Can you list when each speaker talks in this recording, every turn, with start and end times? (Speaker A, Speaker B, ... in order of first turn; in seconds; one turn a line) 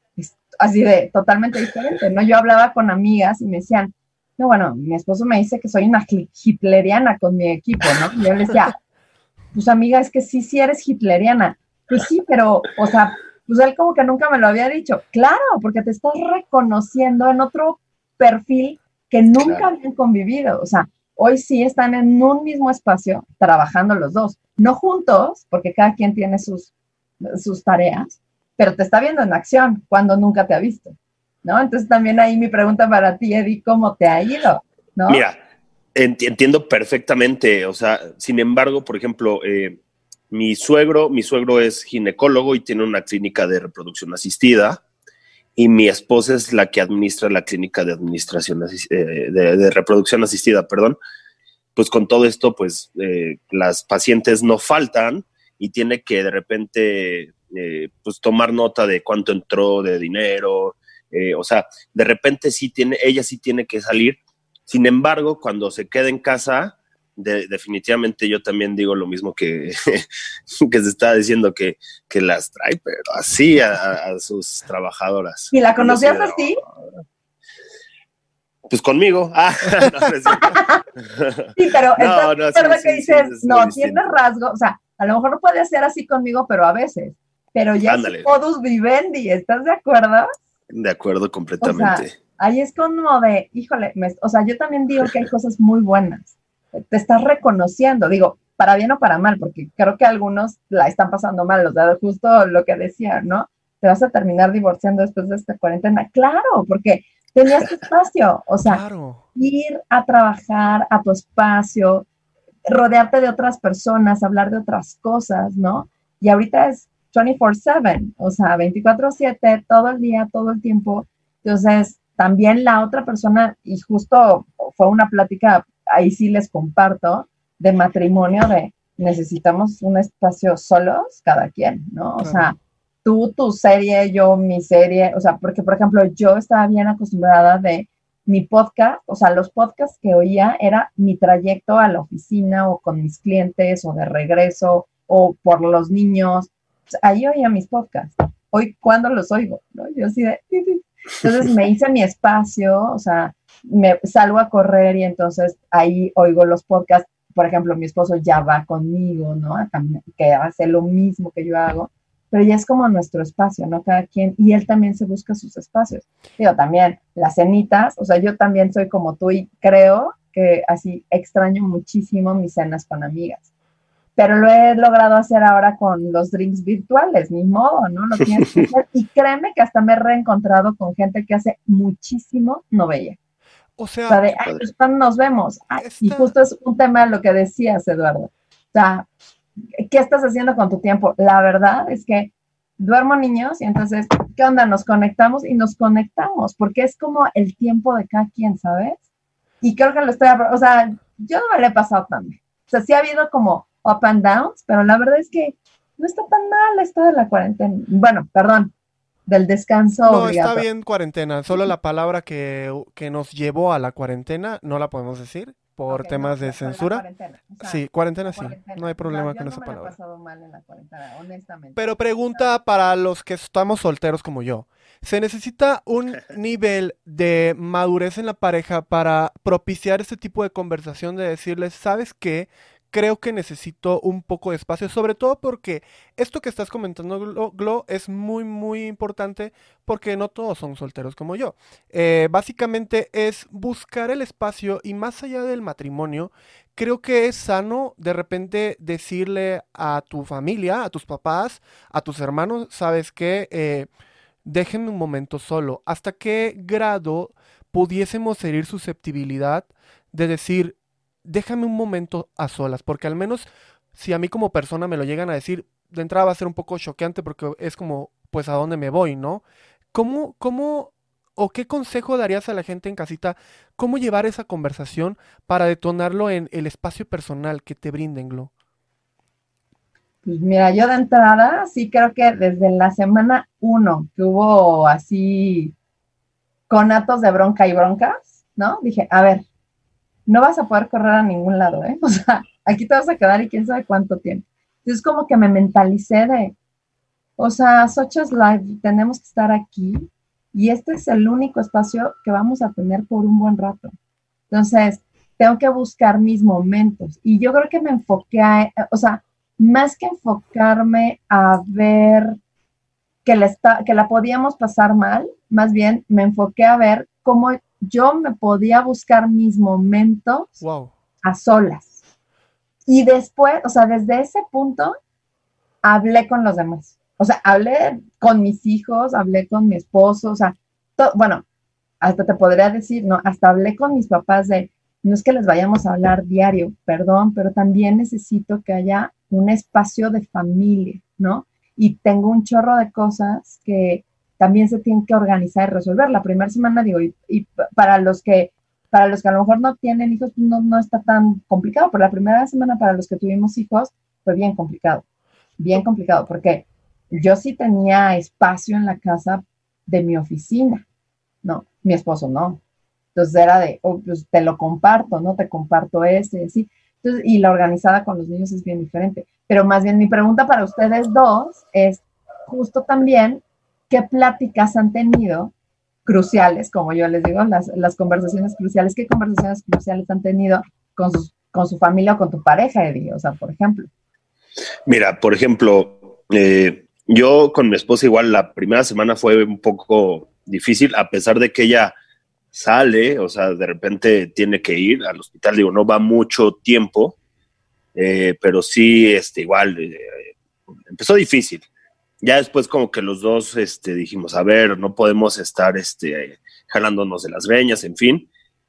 Speaker A: 0.2-8.7
Speaker A: 9.5-26.7
Speaker A: 27.2-35.2
Speaker B: 35.1-35.4
Speaker B: 35.9-39.8
Speaker B: 40.3-44.8
Speaker B: 45.6-51.0
Speaker B: 51.8-70.0
Speaker B: 70.6-76.5
Speaker A: 75.5-76.6
Speaker B: 78.7-84.1
Speaker C: 79.7-80.1
Speaker A: 80.2-80.8
Speaker A: 81.5-90.3
Speaker B: 87.8-88.3
Speaker B: 90.7-92.1
Speaker A: 91.6-108.8
Speaker C: 108.6-109.2
Speaker A: 109.3-112.0
Speaker A: 112.7-146.5
Speaker C: 132.2-132.5
Speaker A: 147.0-173.5
Speaker A: 174.2-183.2
Speaker C: 183.8-184.2
Speaker A: 184.1-189.1
Speaker C: 185.8-186.3
Speaker A: 189.8-199.0
Speaker A: 199.6-208.7
Speaker A: 209.3-210.7
Speaker C: 210.1-217.0
Speaker A: 215.9-222.5
Speaker C: 217.6-219.9
Speaker C: 221.8-253.9
Speaker C: 254.4-278.5
Speaker A: 280.2-285.7
Speaker A: 286.7-289.4
Speaker A: 290.3-296.5
Speaker A: 297.4-303.9
Speaker A: 304.5-312.4
Speaker A: 313.2-320.5
Speaker C: 320.6-320.9
Speaker A: 321.2-322.0
Speaker A: 322.9-324.9
Speaker A: 325.8-331.4
Speaker A: 332.0-355.0
Speaker A: 355.6-360.8
Speaker A: 361.4-362.6
Speaker A: 363.1-375.5
Speaker A: 376.1-383.9
Speaker B: 384.9-391.9
Speaker B: 392.5-397.2
Speaker B: 397.9-400.3
Speaker B: 400.9-401.6
Speaker B: 402.2-408.3